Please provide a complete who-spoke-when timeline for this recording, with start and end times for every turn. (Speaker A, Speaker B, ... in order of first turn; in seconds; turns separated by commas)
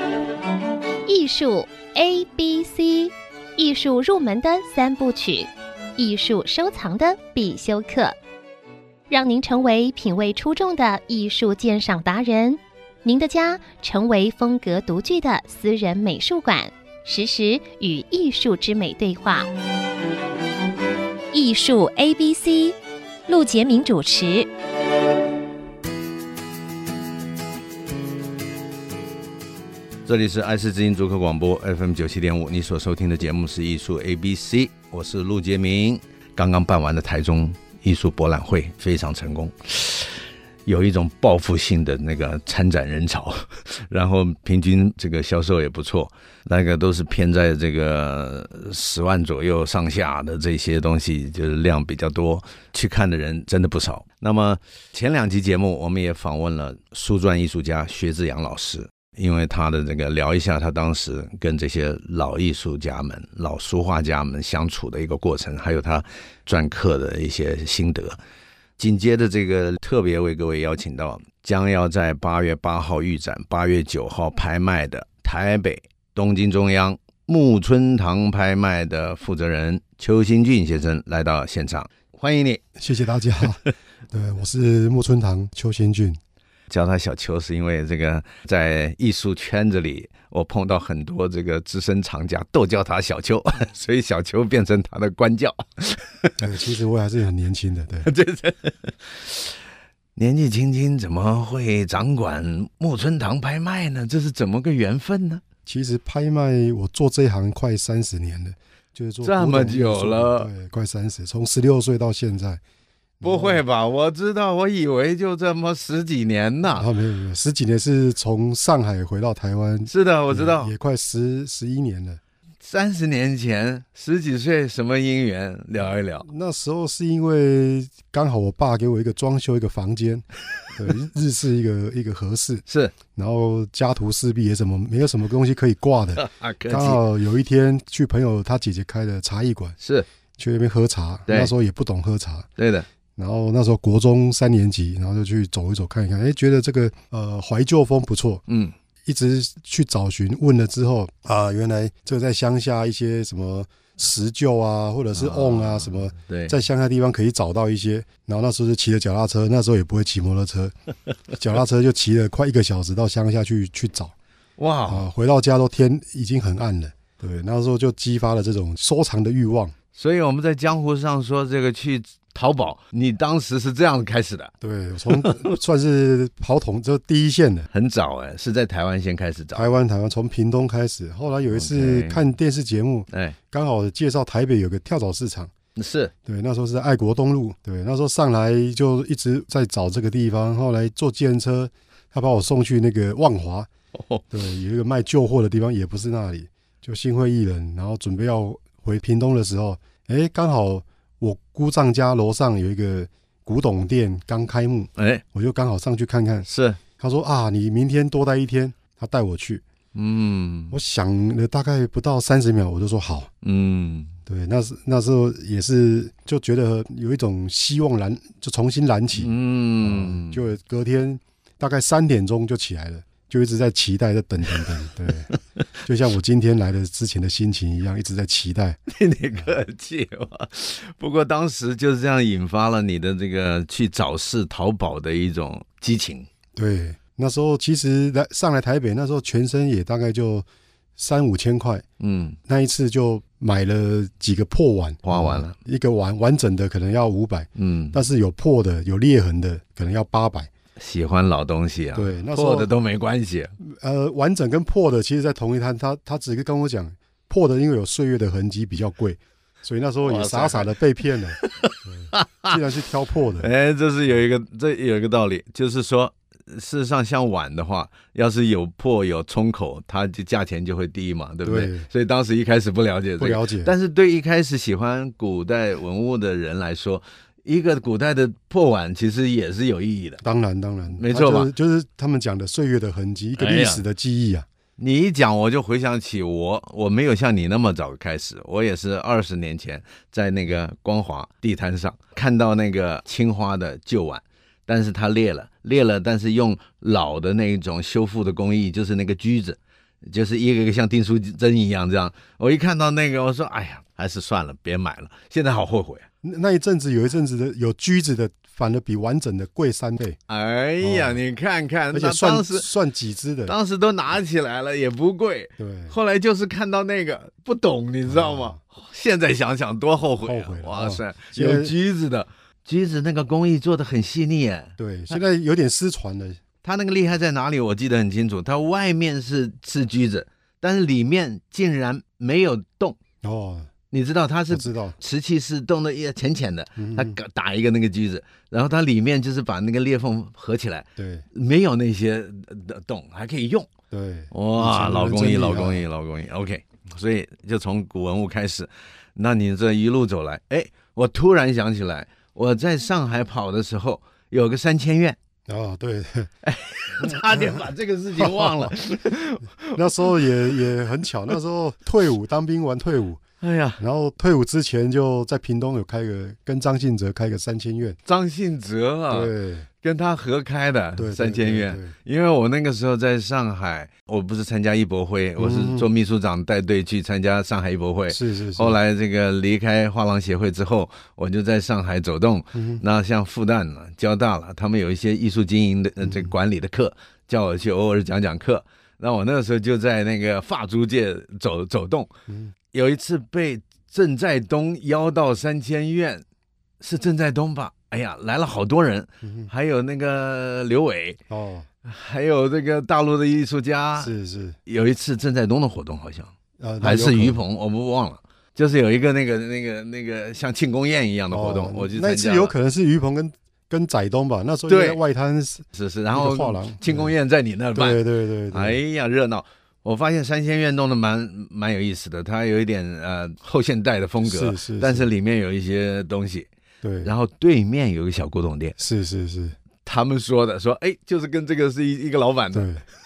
Speaker A: 1.1-8.2, Speaker A: 9.1-19.5, Speaker A: 21.3-22.8, Speaker A: 23.3-24.5, Speaker B: 30.1-68.2, Speaker B: 68.8-82.6, Speaker C: 82.8-86.2, Speaker B: 86.7-96.4, Speaker C: 96.4-98.1, Speaker B: 98.0-99.6, Speaker B: 100.2-105.4, Speaker C: 105.7-112.6, Speaker B: 109.2-110.5, Speaker C: 113.2-113.6, Speaker B: 113.2-116.9, Speaker C: 116.7-122.2, Speaker B: 119.9-120.7, Speaker B: 122.6-126.3, Speaker C: 126.3-132.6, Speaker B: 132.7-132.9, Speaker C: 133.2-139.8, Speaker B: 136.2-137.0, Speaker B: 139.8-140.1, Speaker C: 140.4-142.5, Speaker B: 141.3-141.5, Speaker B: 142.6-142.9, Speaker C: 143.2-148.4, Speaker B: 148.5-148.7, Speaker C: 149.1-160.7, Speaker B: 155.2-156.6, Speaker C: 161.4-164.1, Speaker B: 164.6-165.1, Speaker C: 164.9-169.8, Speaker B: 169.9-174.5, Speaker C: 174.6-177.7, Speaker B: 175.1-175.4, Speaker B: 177.7-179.7, Speaker C: 179.5-185.5, Speaker B: 181.5-182.2, Speaker B: 183.1-183.4, Speaker B: 185.8-186.1, Speaker C: 186.3-193.7, Speaker B: 193.9-194.3, Speaker C: 194.3-206.5, Speaker B: 205.0-205.2, Speaker B: 206.5-206.8, Speaker C: 207.0-209.6, Speaker B: 209.9-210.8, Speaker C: 210.7-213.3, Speaker B: 213.4-214.1, Speaker C: 214.3-225.3, Speaker B: 219.2-220.4, Speaker C: 225.8-228.8, Speaker B: 228.9-236.3, Speaker C: 236.6-240.5, Speaker C: 241.0-241.8, Speaker B: 242.0-242.4, Speaker C: 242.5-250.5, Speaker B: 245.1-245.6, Speaker B: 247.6-248.0, Speaker B: 250.8-253.5, Speaker C: 251.9-252.7, Speaker C: 253.6-263.5, Speaker B: 260.0-260.8, Speaker B: 261.4-262.6, Speaker B: 263.4-280.2, Speaker C: 271.4-271.9, Speaker C: 273.2-273.7, Speaker C: 280.2-284.5, Speaker B: 281.0-281.5, Speaker B: 283.4-283.8, Speaker B: 284.8-306.1, Speaker C: 306.2-310.2, Speaker B: 310.3-312.7, Speaker C: 310.8-311.2, Speaker C: 311.9-313.6, Speaker B: 313.5-325.1, Speaker C: 315.6-315.9, Speaker C: 318.1-318.6, Speaker C: 320.2-321.7, Speaker C: 324.8-326.4, Speaker B: 326.6-333.0, Speaker C: 333.2-333.7, Speaker B: 333.9-343.7, Speaker C: 334.5-335.0, Speaker C: 336.8-337.2, Speaker C: 341.0-341.3, Speaker C: 343.9-345.9, Speaker B: 344.3-355.2, Speaker C: 355.5-356.3, Speaker B: 356.4-360.6, Speaker C: 357.0-357.7, Speaker C: 358.2-358.7, Speaker C: 359.7-363.2, Speaker B: 363.4-363.8, Speaker C: 363.8-368.0, Speaker B: 368.1-392.1, Speaker C: 369.1-369.7, Speaker C: 371.0-371.9, Speaker C: 375.4-375.9, Speaker C: 378.1-378.8, Speaker C: 382.5-382.8, Speaker C: 386.0-386.3, Speaker C: 392.3-392.5, Speaker B: 392.7-396.2, Speaker B: 396.8-401.2, Speaker C: 399.2-399.5, Speaker C: 401.3-401.7, Speaker B: 401.9-404.1, Speaker C: 404.0-404.6, Speaker B: 404.7-412.5, Speaker C: 406.6-407.4, Speaker C: 411.3-417.1, Speaker B: 414.7-415.0, Speaker B: 415.7-426.5, Speaker C: 417.8-418.8, Speaker C: 424.2-425.1, Speaker C: 426.8-427.1, Speaker B: 427.0-428.8, Speaker C: 428.8-429.6, Speaker B: 429.8-432.7, Speaker C: 432.5-432.8